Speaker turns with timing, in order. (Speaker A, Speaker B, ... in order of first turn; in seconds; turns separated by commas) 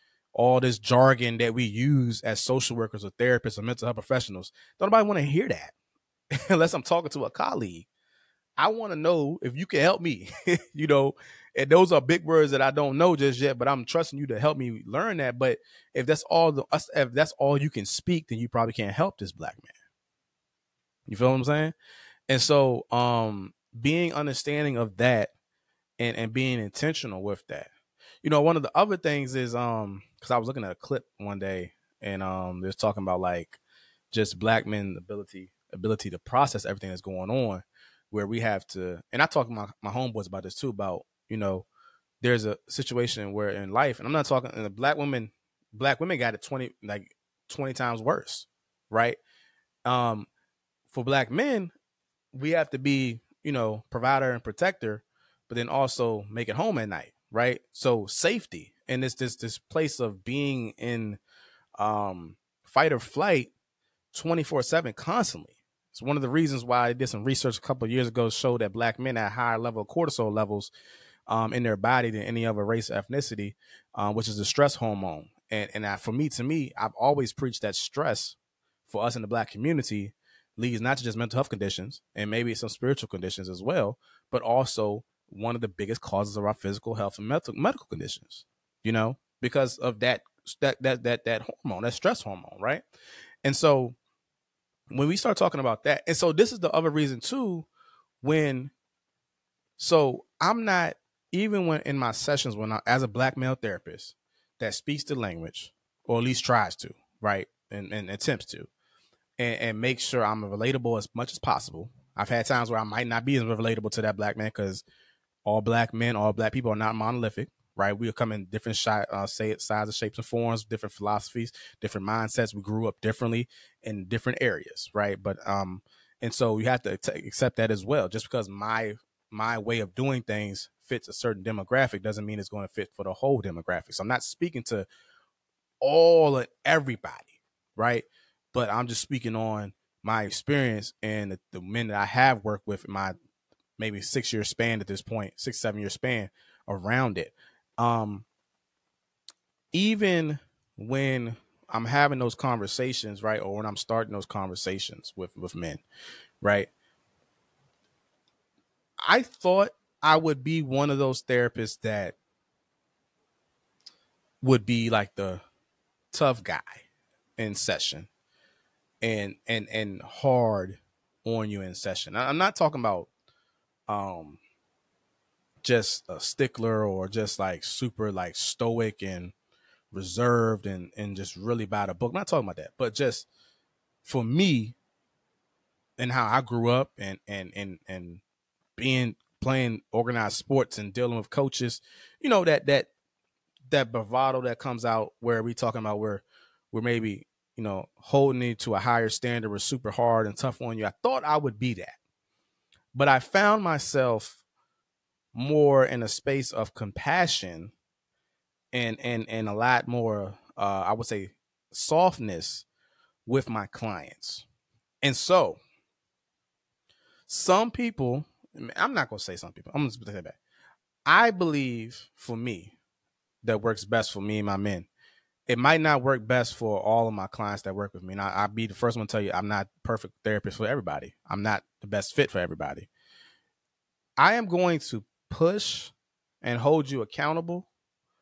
Speaker A: 0.3-5.7, Speaker A: 6.5-7.9, Speaker A: 8.6-19.7, Speaker A: 21.1-21.7, Speaker A: 22.3-25.3, Speaker A: 26.0-27.7, Speaker A: 28.2-33.6, Speaker A: 34.1-41.6, Speaker A: 42.2-49.2, Speaker A: 49.9-50.3, Speaker A: 50.9-51.7, Speaker A: 52.3-61.2, Speaker A: 61.8-63.5, Speaker A: 64.1-70.7, Speaker A: 71.3-92.8, Speaker A: 93.4-94.0, Speaker A: 94.9-97.7, Speaker A: 98.2-98.7, Speaker A: 99.8-108.7, Speaker A: 109.4-114.8, Speaker A: 115.4-134.9, Speaker A: 135.8-143.1, Speaker A: 143.8-148.2, Speaker A: 149.7-155.8, Speaker A: 156.4-156.7, Speaker A: 159.0-162.2, Speaker A: 164.4-165.4, Speaker A: 166.1-166.8, Speaker A: 167.4-168.1, Speaker A: 169.0-173.1, Speaker A: 173.9-174.4, Speaker A: 175.6-179.3, Speaker A: 179.9-183.3, Speaker A: 184.0-184.8, Speaker A: 186.0-188.2, Speaker A: 188.8-192.9, Speaker A: 193.7-202.0, Speaker A: 202.9-204.4, Speaker A: 205.3-207.7, Speaker A: 208.7-212.7, Speaker A: 213.2-214.4, Speaker A: 215.0-215.6, Speaker A: 217.3-220.4, Speaker A: 221.1-222.7, Speaker A: 223.4-224.9, Speaker A: 225.5-232.9, Speaker A: 234.2-237.7